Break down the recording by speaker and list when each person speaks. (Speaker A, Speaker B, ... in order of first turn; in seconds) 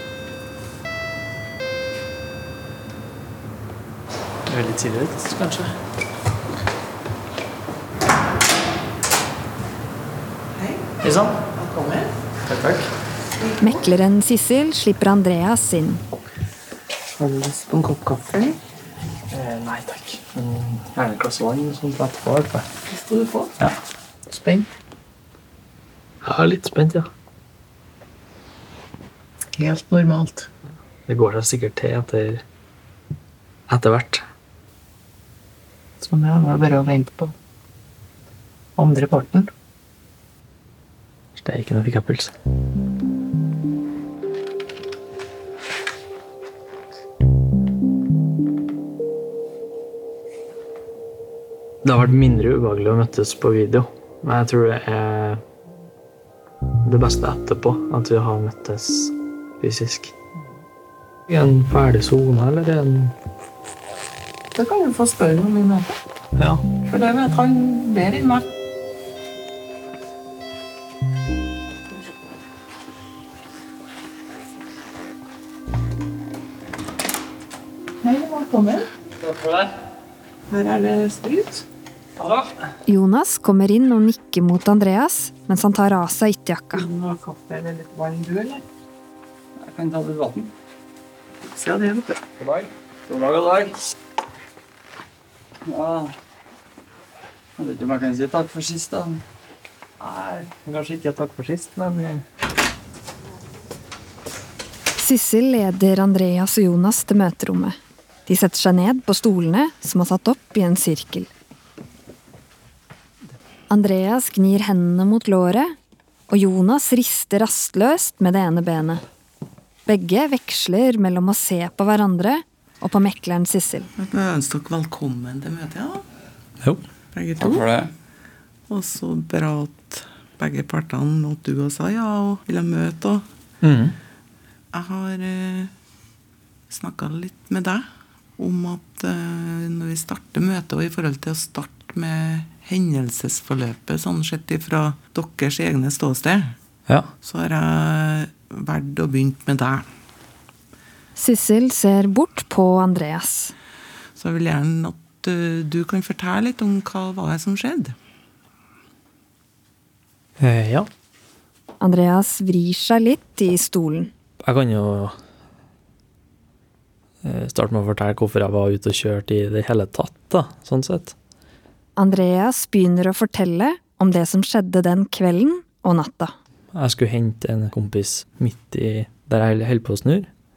Speaker A: 4.5-5.7, 11.0-11.4, 12.4-12.9, 19.3-22.7, 26.2-27.1, 31.1-32.4, 33.7-34.2, 41.4-42.3, 51.8-55.4, 56.8-60.1, 61.3-63.1, 66.4-66.6, 100.0-102.2, 133.6-133.9, 160.4-160.9, 164.4-165.2, 167.2-171.1, 176.7-180.3
Speaker B: 11.5-12.1, 17.2-18.6, 22.9-23.5, 24.3-24.6, 29.6-30.5, 36.0-37.3, 38.8-39.5, 64.5-65.9, 66.8-68.4, 78.0-78.9, 80.5-81.6, 86.7-88.6, 91.5-92.2, 124.0-126.0, 127.1-127.7, 128.7-133.2, 134.7-135.7, 136.7-137.8, 138.4-146.5, 147.2-149.8, 154.2-157.9
Speaker C: 13.6-16.0, 82.9-86.8, 105.0-111.3, 113.7-115.7, 116.3-119.0, 119.8-123.9, 151.2-153.5, 161.8-164.1, 171.9-176.3
Speaker D: 89.6-90.5, 92.4-93.8, 95.6-96.1, 97.6-99.2, 127.4-127.9